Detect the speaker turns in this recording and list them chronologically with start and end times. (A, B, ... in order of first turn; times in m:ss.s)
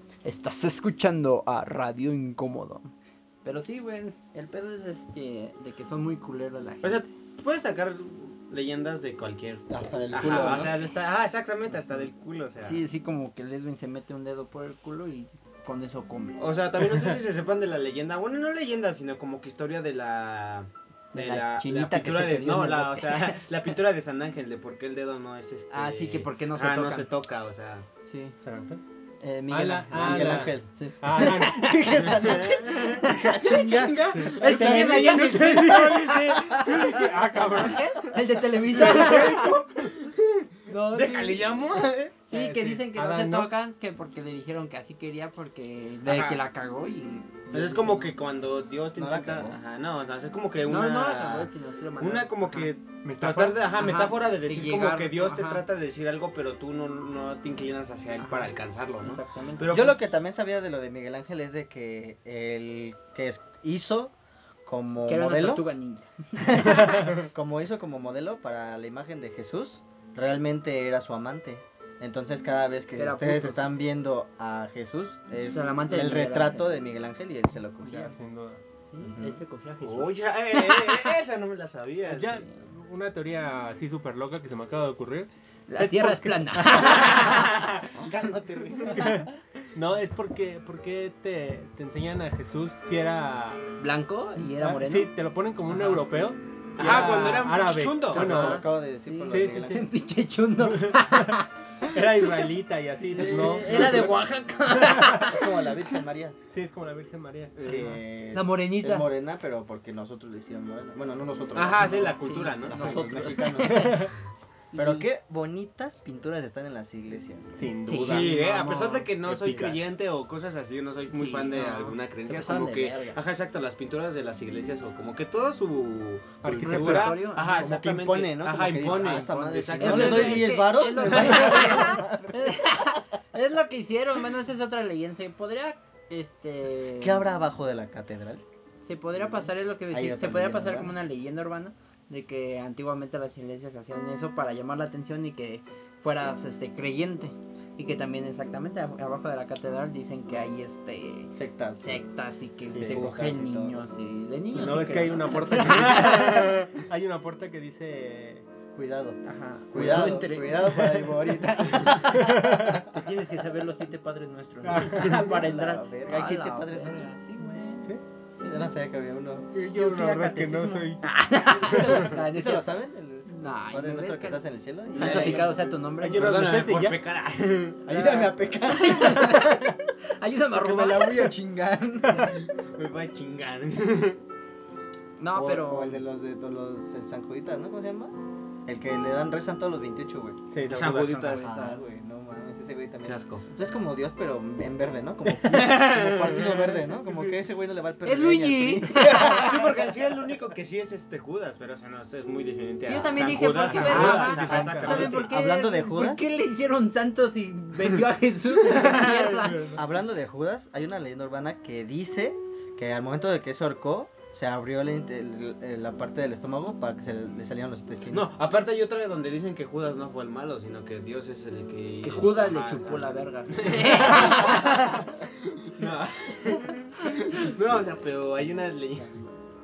0:00.2-0:02.9 A
0:03.4-0:07.0 A
0:06.8-0:12.8 B
0:09.7-0:10.7 C
0:10.1-0:10.9 A
0:12.6-0:16.4 A
0:16.4-0:27.8 B
0:21.1-0:23.4 A
0:25.7-0:27.1 A
0:28.1-0:28.3 A
0:28.4-0:28.8 D
0:29.2-0:33.3 A
0:29.5-0:32.1 D
0:29.9-0:36.9 C
0:32.2-0:37.0 B
0:34.2-0:38.1 D
0:37.4-0:39.6 A
0:38.7-0:40.1 B
0:38.7-0:39.5 D
0:40.7-0:41.6 A
0:40.9-0:42.1 B
0:42.3-0:48.1 A
0:42.3-0:43.5 D
0:46.0-0:46.4 B
0:47.5-1:00.0 B
0:48.9-0:49.6 C
0:50.6-0:52.7 A
0:53.0-0:53.6 D
0:53.7-0:55.6 A
0:58.2-0:59.7 A
0:59.6-1:04.1 C
1:04.6-1:05.6 C
1:05.0-1:07.1 A
1:06.4-1:18.1 C
1:12.9-1:13.7 A
1:15.4-1:16.7 A
1:17.8-1:18.6 D
1:18.9-1:21.1 A
1:19.0-1:19.3 C
1:19.8-1:22.4 B
1:22.1-1:27.4 D
1:25.7-1:27.5 A
1:27.9-1:29.2 C
1:28.9-1:33.6 D
1:33.8-1:35.1 A
1:34.4-1:38.6 D
1:35.7-1:36.1 A
1:36.8-1:38.6 B
1:36.8-1:37.4 A
1:38.1-1:39.8 C
1:38.4-1:41.5 A
1:39.3-1:39.8 D
1:40.6-1:45.3 D
1:43.1-1:45.7 A
1:45.1-1:46.4 C
1:46.5-1:47.5 D
1:47.6-1:52.2 C
1:47.7-1:49.1 A
1:51.5-1:53.5 B
1:52.0-1:54.1 A
1:52.7-1:54.1 C
1:53.6-1:54.1 D
1:54.7-1:55.0 A
1:54.7-1:57.6 C
1:57.5-1:58.4 D
1:57.9-1:59.1 A
1:58.0-2:11.5 B
1:59.2-1:59.8 D
2:01.1-2:03.2 A
2:06.4-2:07.2 D
2:06.6-2:07.6 A
2:07.5-2:12.6 C
2:09.7-2:17.2 A
2:17.0-2:18.4 C
2:18.8-2:36.5 A
2:19.9-2:21.0 C
2:31.3-2:32.0 C
2:32.7-2:33.8 C
2:34.5-2:38.4 D
2:36.0-2:36.4 B
2:38.7-2:39.2 C
2:39.2-2:41.1 A
2:39.7-2:42.8 C
2:41.7-2:42.3 A
2:41.8-2:42.8 D
2:42.8-2:48.7 A
2:44.6-2:45.2 D
2:44.9-2:47.1 C
2:48.5-2:49.5 C
2:49.5-2:51.0 D
2:49.6-2:52.7 A
2:51.6-2:52.1 D
2:51.7-2:55.5 C
2:53.2-2:56.4 A
2:54.9-2:55.6 B
2:56.0-2:57.0 D
2:56.1-2:57.8 B
2:57.8-2:59.7 C
2:57.9-3:01.3 A
3:00.5-3:02.4 C
3:02.6-3:04.2 B
3:05.2-3:06.0 A
3:05.3-3:08.1 C
3:08.6-3:19.8 C
3:10.5-3:11.3 D
3:10.6-3:11.4 B
3:11.1-3:11.8 A
3:13.0-3:13.4 B
3:15.4-3:16.7 B
3:16.9-3:17.4 D
3:18.0-3:19.7 A
3:19.1-3:25.3 B
3:22.8-3:29.8 A
3:23.6-3:25.2 D
3:23.8-3:26.2 C
3:28.7-3:29.2 B
3:29.4-3:29.8 D
3:29.8-3:38.3 C
3:38.1-3:49.3 B
3:42.0-3:44.8 A